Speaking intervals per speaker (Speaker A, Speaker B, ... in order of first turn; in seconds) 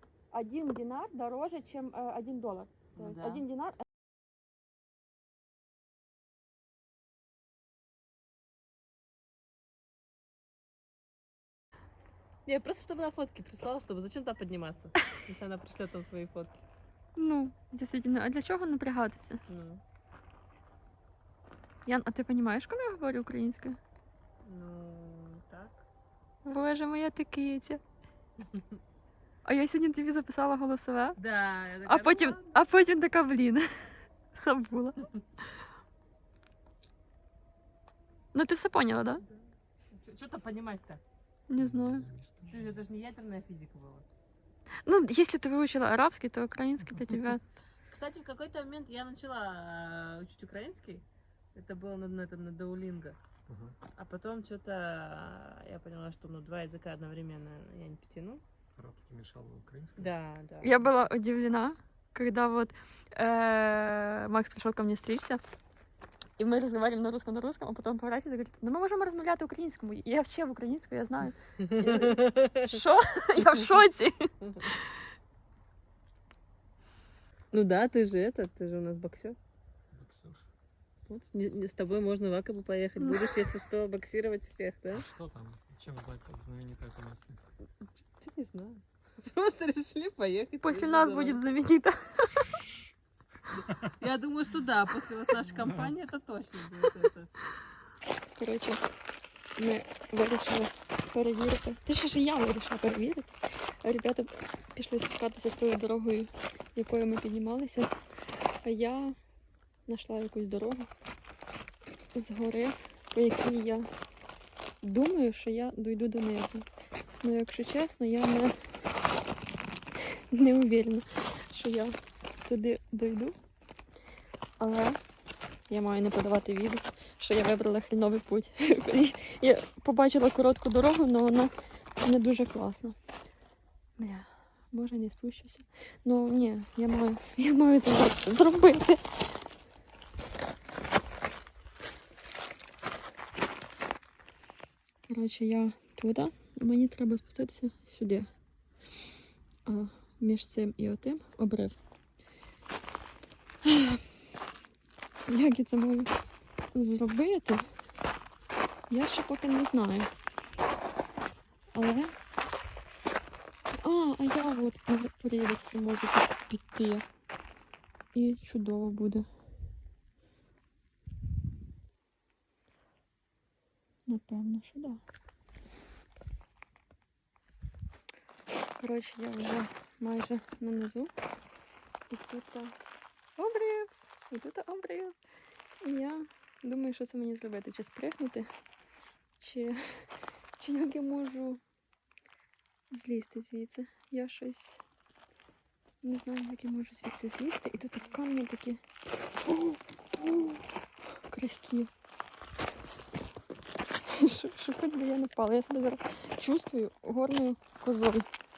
Speaker A: 0.3-3.9, 17.2-19.4, 21.9-23.8, 26.4-27.8, 29.4-31.2, 31.9-35.1, 38.3-39.2, 41.5-42.1, 44.9-47.4, 60.6-65.4, 66.4-75.0, 90.6-92.6, 98.4-98.8, 99.6-107.9, 108.6-109.2, 109.9-110.9, 112.1-113.9, 114.8-116.7, 117.2-118.5, 120.3-123.4, 124.6-125.0, 125.7-133.0, 134.0-139.0, 145.1-148.3, 149.7-151.8, 153.6-154.0, 155.3-156.1, 156.7-157.7, 158.9-160.1, 161.7-162.1, 163.7-167.1, 168.1-169.3, 174.1-175.0, 178.8-181.1, 182.1-182.8, 183.4-185.2, 185.8-188.5, 189.4-190.1, 190.6-191.6, 192.9-194.8, 196.0-198.8, 199.5-200.6, 201.3-201.9, 204.1-208.3
Speaker B: 3.0-3.4, 12.5-16.6, 19.5-19.8, 24.4-25.8, 31.2-32.6, 39.9-41.0, 42.5-44.0, 47.9-51.0, 51.5-53.2, 54.0-58.4, 60.0-60.9, 71.7-72.8, 73.4-73.7, 74.4-74.7, 77.5-79.4, 81.1-85.1, 88.2-91.4, 93.5-97.3
Speaker C: 41.6-42.7, 53.5-53.8, 58.8-60.1, 79.9-80.5, 84.9-87.4